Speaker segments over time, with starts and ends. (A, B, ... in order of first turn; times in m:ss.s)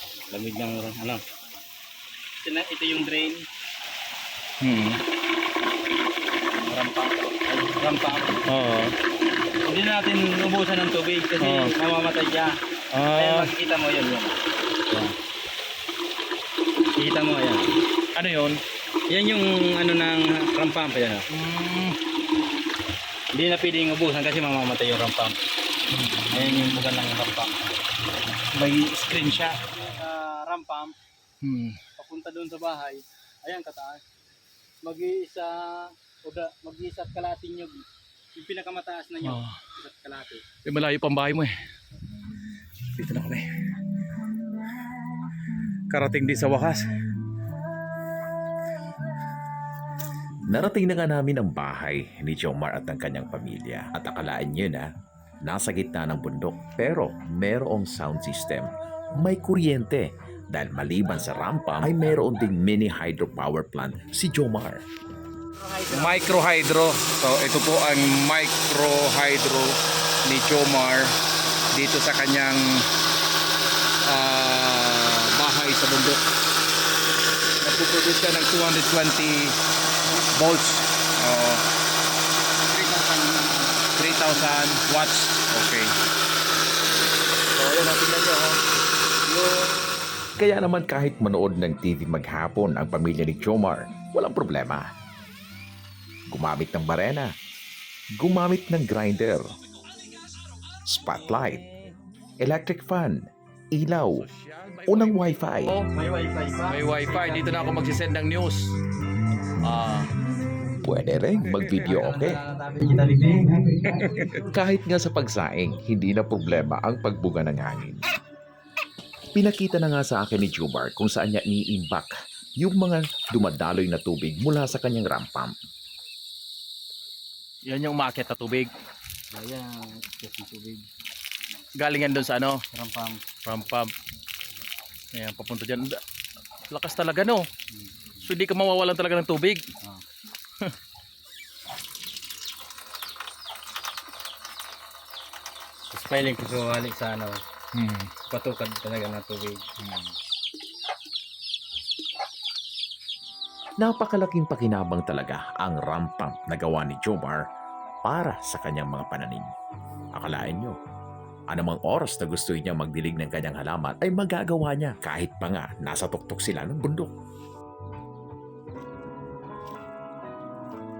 0:00.2-0:01.2 A
0:02.4-0:03.4 A
0:04.6-0:05.0 B
0:06.5-0:08.4 A
0:08.5-0:09.0 B
0:09.6-0:12.5 A
0:11.4-0:11.7 B
0:12.9-0:13.5 B
0:13.1-0:14.3 A
0:17.0-0:17.7 A
0:18.1-0:18.6 B
0:19.1-0:21.2 A
0:21.3-0:22.0 B
0:23.3-0:25.4 A
0:26.0-0:26.7 B
0:26.3-0:27.7 A
0:28.5-0:29.6 B
0:29.7-0:30.9 A
0:31.4-0:31.8 B
0:32.0-0:34.0 A
0:34.8-0:37.8 A
0:38.3-0:40.4 A
0:39.2-0:39.6 B
0:40.6-0:41.5 B
0:42.9-0:43.5 B
0:45.9-0:46.8 B
0:50.4-0:54.9 C
0:55.4-1:04.8 C
1:05.6-1:06.3 A
1:05.9-1:11.1 B
1:11.7-1:12.8 B
1:14.0-1:16.2 B
1:17.6-1:19.6 B
1:20.3-1:21.6 B
1:22.7-1:24.5 A
1:24.0-1:25.9 B
1:27.6-1:28.5 B
1:29.3-1:29.5 A
1:30.4-1:34.9 C
1:36.3-1:37.3 C
1:38.2-1:39.5 C
1:40.9-1:41.7 C
1:42.4-1:44.2 C
1:44.2-1:45.9 B
1:44.9-1:45.8 C
1:45.9-1:47.9 A
1:46.7-1:48.8 B
1:49.6-1:50.1 B
1:50.8-1:52.4 C
1:51.5-1:51.9 B
1:51.8-1:54.1 A
1:53.9-1:54.5 B
1:54.5-1:58.0 C
1:59.3-2:02.1 C
2:02.6-2:05.5 C
2:07.6-2:08.7 B
2:09.3-2:10.8 A
2:11.7-2:12.6 B
2:12.7-2:13.2 A
2:13.4-2:13.9 B
2:15.1-2:16.0 B
2:16.7-2:17.5 B
2:18.2-2:19.6 B
2:25.9-2:27.4 A
2:27.7-2:28.1 B
2:28.3-2:29.6 A
2:29.8-2:30.1 B
2:33.8-2:37.4 C
2:38.0-2:39.5 C
2:40.1-2:40.8 C
2:41.5-2:47.1 C